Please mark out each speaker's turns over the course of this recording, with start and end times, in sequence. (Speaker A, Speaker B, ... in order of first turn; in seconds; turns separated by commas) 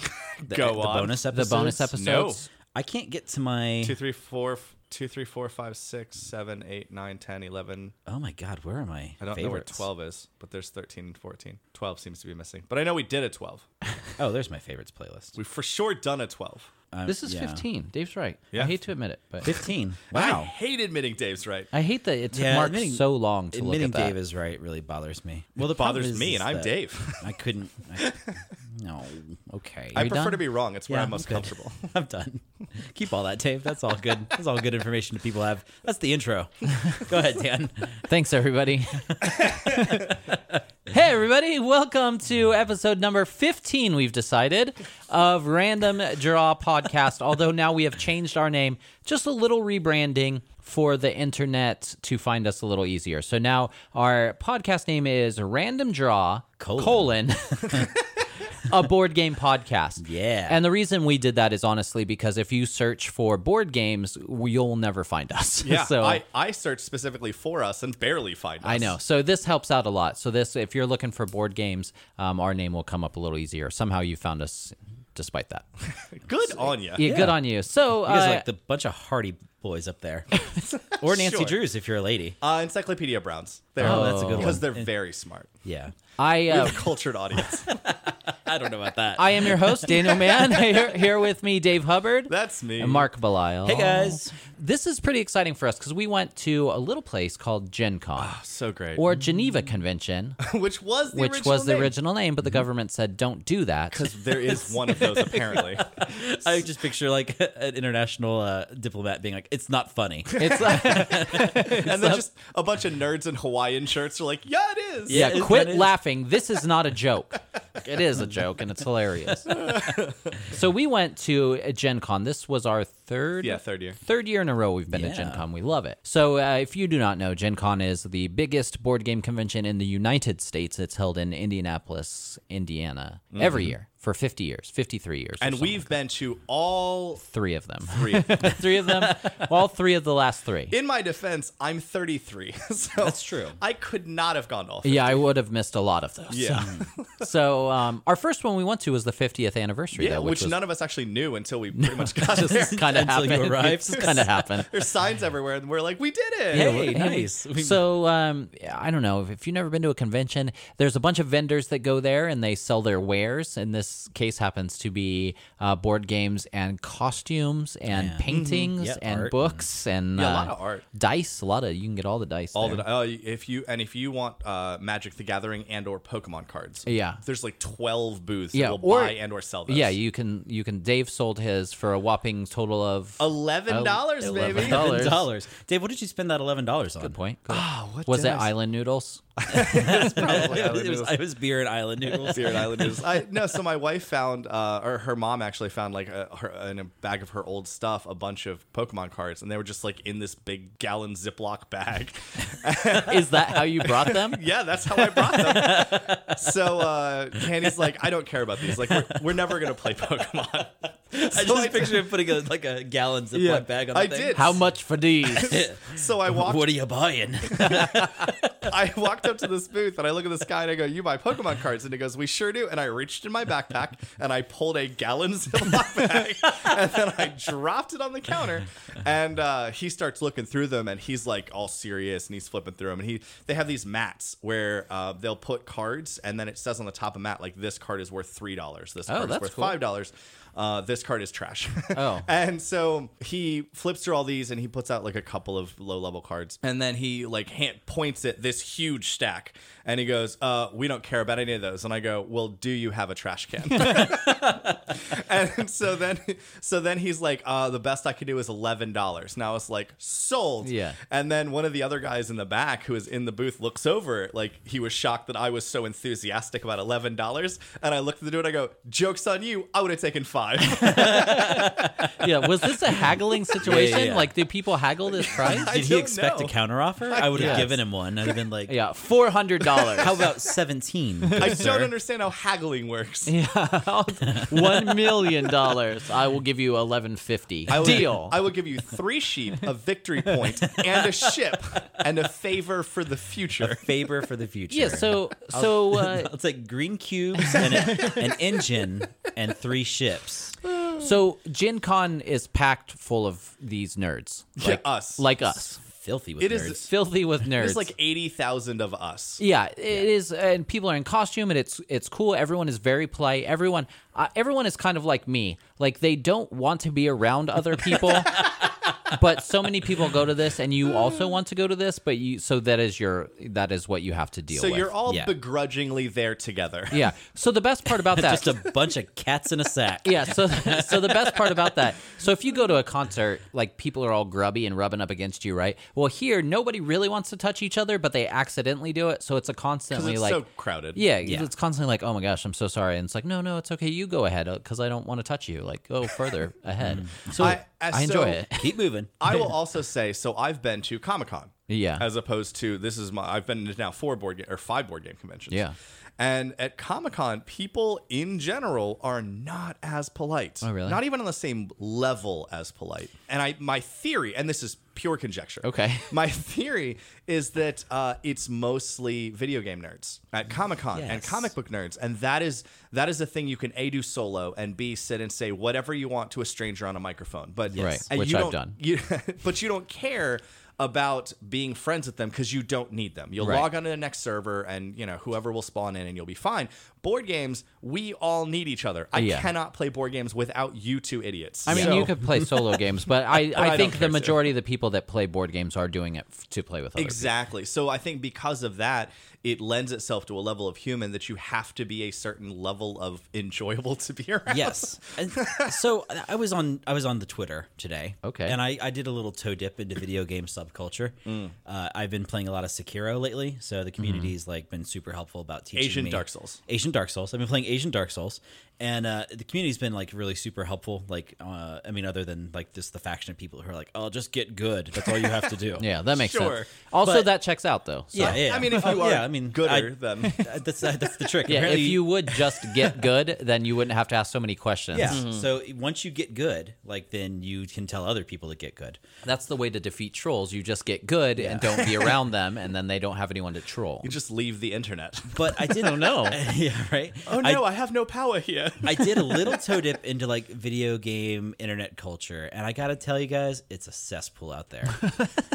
Speaker A: 0.4-1.3, Speaker B: 0.5-1.9, Speaker C: 1.3-2.5, Speaker A: 1.9-2.4, Speaker B: 2.7-4.0, Speaker A: 3.8-7.9, Speaker B: 8.1-9.9, Speaker A: 9.2-13.7, Speaker B: 14.2-15.3, Speaker A: 15.3-16.7, Speaker B: 16.9-17.6, Speaker C: 17.1-19.5, Speaker B: 19.4-20.5, Speaker A: 20.1-21.7, Speaker C: 21.7-24.2, Speaker B: 22.3-30.1, Speaker A: 25.6-27.4, Speaker A: 28.0-28.4, Speaker A: 29.9-31.9, Speaker C: 29.9-30.4, Speaker B: 30.9-38.1, Speaker C: 38.0-40.2, Speaker B: 39.1-40.0, Speaker C: 40.9-57.9, Speaker B: 56.6-57.1, Speaker C: 58.6-66.2, Speaker B: 60.0-60.6, Speaker A: 65.6-69.0, Speaker C: 68.6-75.7, Speaker A: 76.0-77.1, Speaker C: 77.0-78.5, Speaker B: 77.0-77.4, Speaker B: 78.0-80.4, Speaker A: 80.7-81.6, Speaker B: 80.9-82.4, Speaker A: 82.4-85.5, Speaker B: 83.8-84.9, Speaker C: 83.8-84.6, Speaker B: 85.7-86.0, Speaker C: 86.2-86.8, Speaker A: 86.5-87.8, Speaker B: 87.4-91.0, Speaker C: 89.2-98.4, Speaker A: 92.3-93.1, Speaker B: 93.7-94.3, Speaker A: 98.2-99.0, Speaker C: 99.0-100.4, Speaker A: 100.4-101.9, Speaker C: 101.1-104.1, Speaker A: 103.9-106.0, Speaker B: 104.6-111.9, Speaker A: 110.3-115.3, Speaker C: 110.4-112.2, Speaker B: 115.1-116.0, Speaker C: 115.1-119.7, Speaker A: 119.6-120.0, Speaker C: 120.5-135.9, Speaker A: 123.4-124.0, Speaker B: 124.9-125.5, Speaker A: 133.3-133.7, Speaker A: 135.4-137.2, Speaker C: 137.2-140.8, Speaker A: 137.8-138.6, Speaker B: 138.9-139.4, Speaker A: 140.7-145.2, Speaker B: 143.0-143.6, Speaker C: 144.8-150.6, Speaker A: 146.3-147.3, Speaker A: 149.9-153.0, Speaker C: 151.8-154.7, Speaker B: 152.5-154.4, Speaker A: 154.1-156.9, Speaker B: 156.5-157.8, Speaker C: 156.5-172.8, Speaker B: 167.9-169.7, Speaker A: 168.3-168.7, Speaker A: 170.2-170.8, Speaker A: 172.6-179.9, Speaker C: 176.9-177.2, Speaker C: 178.5-185.3, Speaker A: 183.2-185.1, Speaker B: 184.5-187.2, Speaker C: 187.0-189.2, Speaker A: 187.5-188.5, Speaker A: 189.4-191.2, Speaker B: 189.5-193.1, Speaker A: 192.2-212.2, Speaker C: 203.0-204.4, Speaker B: 205.0-206.8, Speaker B: 207.4-207.8, Speaker B: 208.7-209.5, Speaker B: 211.1-214.6, Speaker A: 213.3-214.6, Speaker C: 214.3-215.6, Speaker B: 215.3-218.7, Speaker A: 215.4-216.8, Speaker A: 217.4-272.3, Speaker C: 239.1-239.8, Speaker C: 241.9-242.3, Speaker C: 260.6-261.0, Speaker B: 270.8-272.2, Speaker C: 272.1-275.7, Speaker B: 273.6-274.4, Speaker A: 275.3-278.4, Speaker B: 275.3-278.7, Speaker C: 277.4-277.7, Speaker C: 278.7-280.1, Speaker A: 279.8-280.1, Speaker B: 280.0-281.9, Speaker A: 281.4-283.3, Speaker C: 283.3-288.4, Speaker A: 287.7-293.9, Speaker B: 293.6-300.6, Speaker C: 294.7-296.3, Speaker C: 297.4-298.1, Speaker A: 297.9-298.2, Speaker A: 300.8-301.0, Speaker C: 301.0-305.8, Speaker A: 304.6-305.3, Speaker B: 305.8-306.9, Speaker A: 306.4-306.9, Speaker C: 306.8-307.9, Speaker A: 307.5-309.4, Speaker C: 309.4-324.9, Speaker A: 324.5-327.0, Speaker B: 325.1-325.3, Speaker C: 326.9-328.6, Speaker B: 328.1-331.8, Speaker C: 330.0-348.7, Speaker A: 339.9-341.0, Speaker B: 341.2-341.5, Speaker B: 346.8-347.4, Speaker A: 347.4-348.4, Speaker B: 348.6-349.3, Speaker A: 349.2-355.6, Speaker C: 351.7-352.1, Speaker A: 356.2-392.1, Speaker C: 360.6-361.0, Speaker C: 365.6-366.1, Speaker B: 370.9-371.5, Speaker B: 377.7-378.0, Speaker C: 377.8-378.8, Speaker C: 383.4-383.7, Speaker C: 389.1-389.5, Speaker C: 391.7-397.3, Speaker B: 391.7-392.5, Speaker A: 393.4-394.5, Speaker A: 397.0-405.8, Speaker B: 404.5-425.9, Speaker C: 408.2-408.6, Speaker A: 411.3-411.6, Speaker C: 414.0-414.3, Speaker A: 415.8-416.6, Speaker C: 425.8-428.4, Speaker A: 426.1-426.7, Speaker B: 427.0-427.3, Speaker B: 428.1-432.9, Speaker A: 428.1-431.0, Speaker C: 431.4-435.2, Speaker B: 434.9-439.0, Speaker A: 435.1-435.5, Speaker C: 439.2-444.1, Speaker B: 441.4-441.9, Speaker A: 444.0-446.1, Speaker B: 445.4-447.7, Speaker C: 445.9-446.4, Speaker A: 447.2-449.8, Speaker B: 448.8-455.1, Speaker C: 455.0-455.3